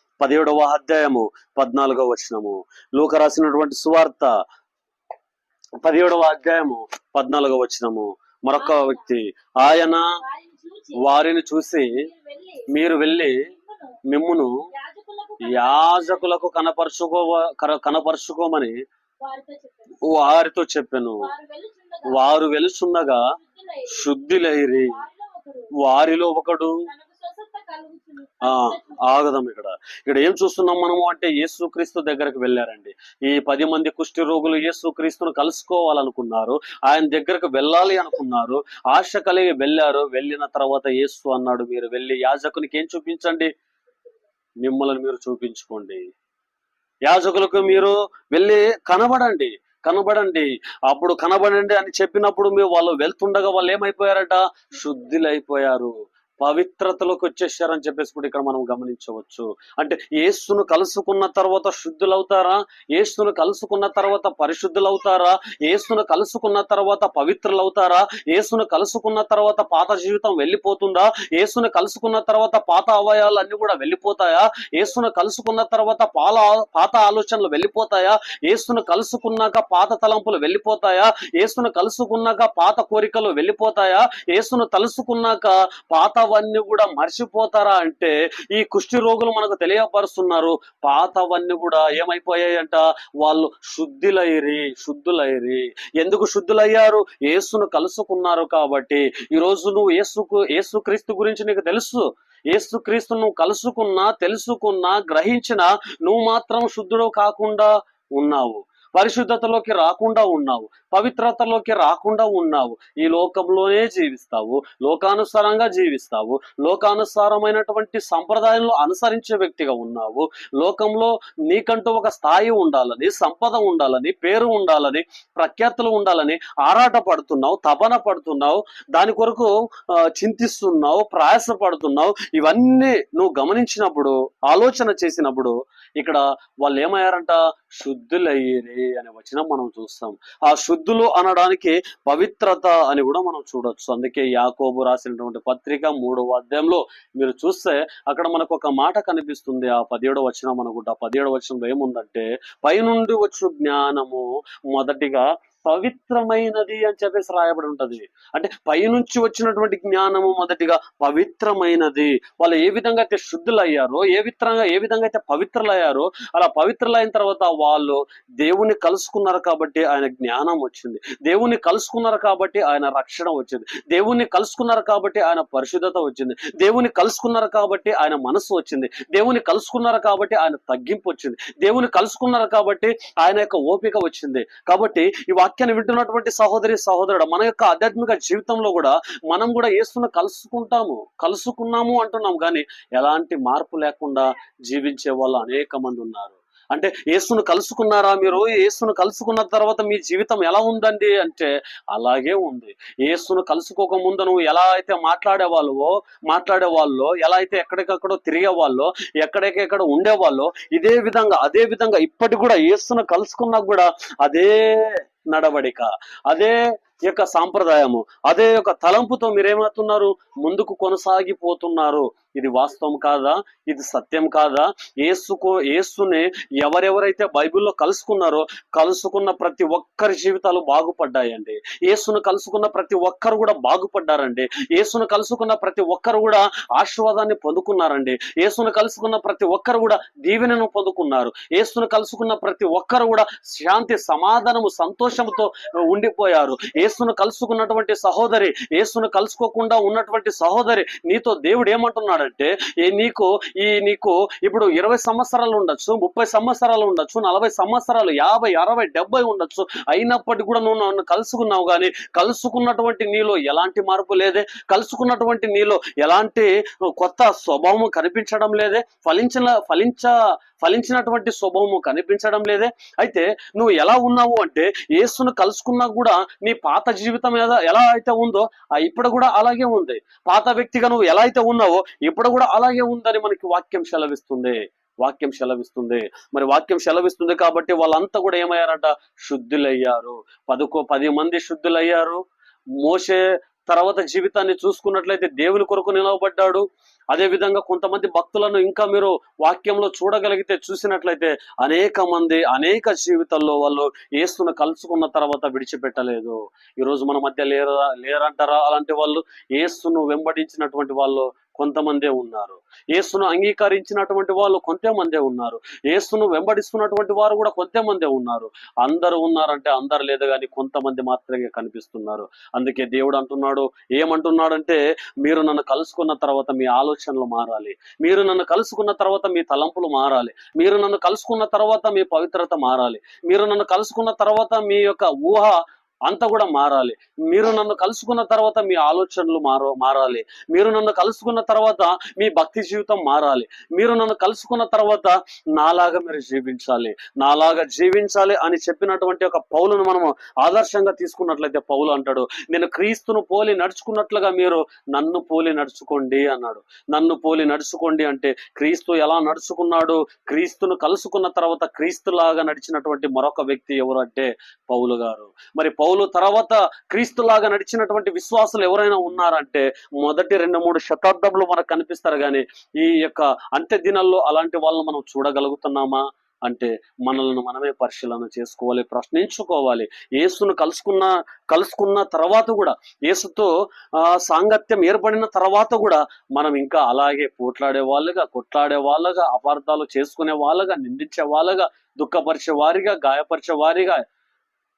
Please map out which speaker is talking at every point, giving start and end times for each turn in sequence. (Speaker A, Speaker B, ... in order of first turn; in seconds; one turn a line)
Speaker A: 0.2-4.3
Speaker A: 5.8-10.1
Speaker B: 8.6-9.1
Speaker B: 10.2-11.2
Speaker A: 10.9-12.0
Speaker B: 11.9-12.7
Speaker A: 12.7-13.4
Speaker B: 13.3-14.0
Speaker A: 14.1-14.5
Speaker B: 14.7-16.5
Speaker A: 15.4-18.7
Speaker B: 19.2-20.1
Speaker A: 20.0-21.3
Speaker B: 21.2-22.2
Speaker A: 22.1-23.3
Speaker B: 23.3-25.7
Speaker A: 23.9-25.0
Speaker A: 25.8-26.8
Speaker B: 26.8-29.3
Speaker A: 28.4-43.5
Speaker A: 44.6-46.0
Speaker A: 47.1-292.2
Speaker A: 292.8-394.0